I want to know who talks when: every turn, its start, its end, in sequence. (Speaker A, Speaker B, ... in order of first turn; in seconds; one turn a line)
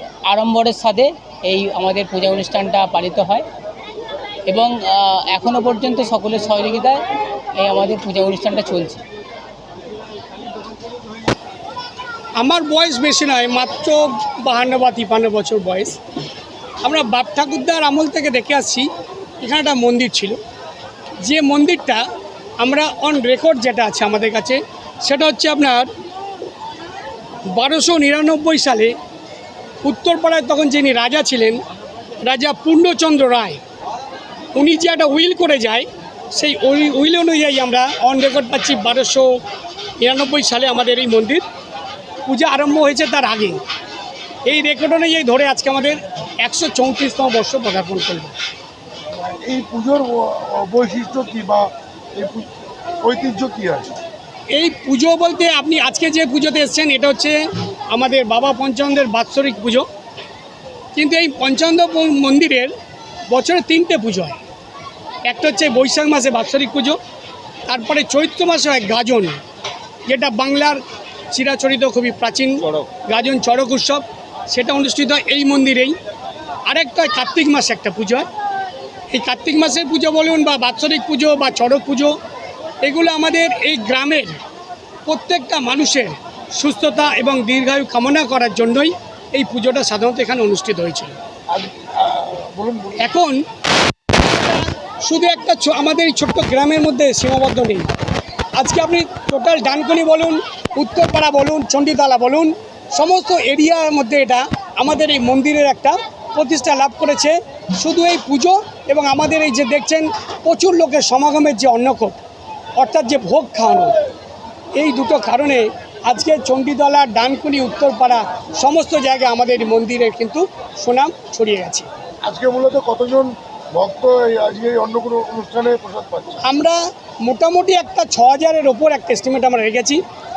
Speaker A: 0.3-3.4
Speaker A: 4.5-7.0
Speaker A: 7.6-9.0
Speaker B: 12.4-16.0
Speaker B: 16.8-18.9
Speaker B: 19.4-20.4
Speaker B: 21.2-22.0
Speaker B: 22.6-25.9
Speaker B: 27.5-28.9
Speaker B: 29.8-31.6
Speaker B: 32.2-33.6
Speaker B: 34.5-39.4
Speaker B: 40.0-41.4
Speaker B: 42.2-43.6
Speaker B: 44.5-48.4
Speaker C: 49.4-52.5
Speaker C: 53.0-53.9
Speaker B: 54.5-59.9
Speaker B: 60.9-62.7
Speaker B: 63.3-64.4
Speaker B: 65.2-67.0
Speaker B: 67.7-69.4
Speaker B: 70.1-70.8
Speaker B: 71.3-76.0
Speaker B: 76.7-78.3
Speaker B: 79.1-82.1
Speaker B: 82.8-84.4
Speaker B: 85.1-91.2
Speaker C: 91.5-93.1
Speaker B: 93.0-93.4
Speaker B: 94.2-97.9
Speaker B: 98.5-112.2
Speaker B: 112.8-113.9
Speaker B: 114.7-121.9
Speaker C: 122.2-126.4
Speaker B: 126.4-130.0